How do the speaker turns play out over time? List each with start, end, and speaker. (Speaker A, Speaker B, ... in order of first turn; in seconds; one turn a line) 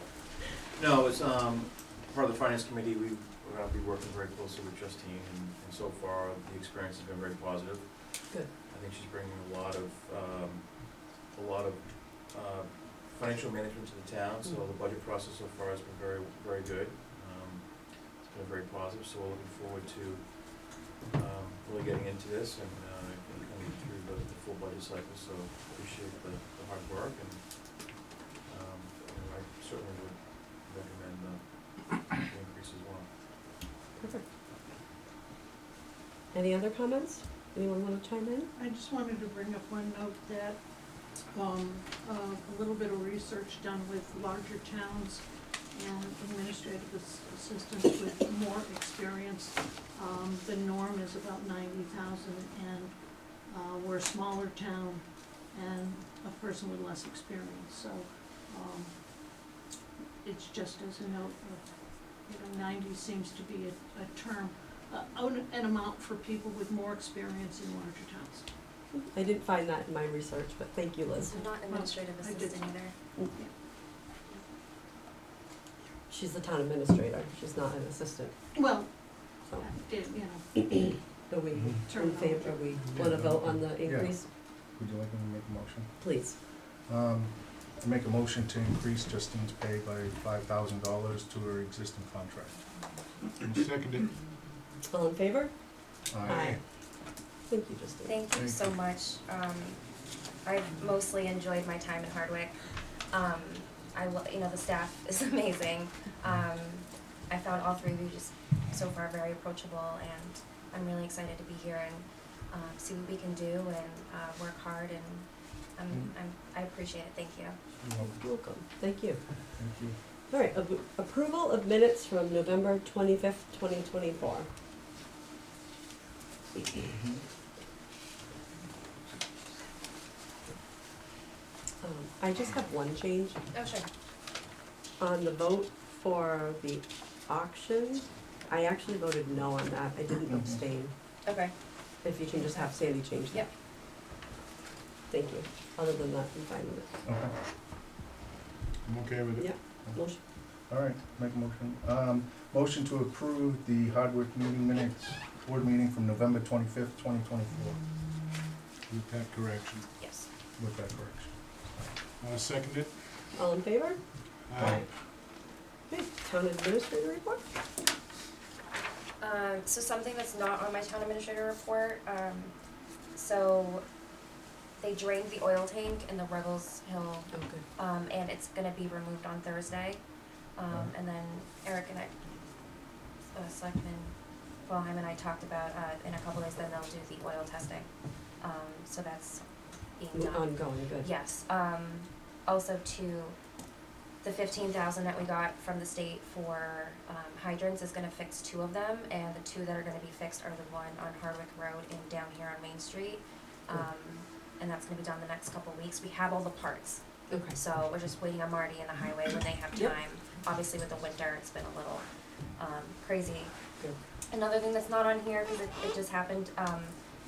Speaker A: 0.8-33.1
Speaker B: 34.0-34.2
Speaker B: 36.3-38.5
Speaker C: 38.6-40.6
Speaker C: 41.3-59.4
Speaker C: 60.2-68.5
Speaker B: 68.9-71.4
Speaker D: 71.2-73.0
Speaker C: 71.4-72.7
Speaker B: 76.1-78.3
Speaker C: 78.5-81.0
Speaker B: 81.3-84.3
Speaker C: 81.8-82.8
Speaker E: 83.0-92.7
Speaker B: 86.0-86.4
Speaker E: 93.4-93.7
Speaker F: 93.5-94.1
Speaker B: 94.9-95.5
Speaker E: 96.1-96.6
Speaker B: 96.2-96.6
Speaker B: 97.5-98.2
Speaker D: 98.0-117.6
Speaker E: 98.3-98.8
Speaker E: 117.8-118.2
Speaker B: 118.0-119.2
Speaker E: 119.5-120.0
Speaker B: 120.3-124.5
Speaker E: 126.9-127.2
Speaker B: 131.8-133.4
Speaker D: 133.5-133.9
Speaker B: 135.0-140.9
Speaker E: 140.3-140.6
Speaker D: 141.2-141.6
Speaker B: 142.0-143.5
Speaker D: 142.3-143.5
Speaker B: 145.1-147.0
Speaker E: 147.1-147.3
Speaker F: 148.8-149.6
Speaker B: 149.4-150.2
Speaker E: 150.7-157.8
Speaker F: 158.9-159.9
Speaker D: 160.0-160.3
Speaker E: 160.6-161.9
Speaker F: 162.2-163.2
Speaker B: 163.3-165.3
Speaker F: 164.5-164.9
Speaker E: 164.6-164.9
Speaker B: 165.9-167.4
Speaker D: 169.2-172.6
Speaker D: 173.1-173.8
Speaker D: 174.8-182.2
Speaker B: 177.3-177.6
Speaker D: 183.3-193.4
Speaker B: 190.1-191.1
Speaker D: 194.2-213.6
Speaker B: 207.3-207.6
Speaker D: 214.3-217.0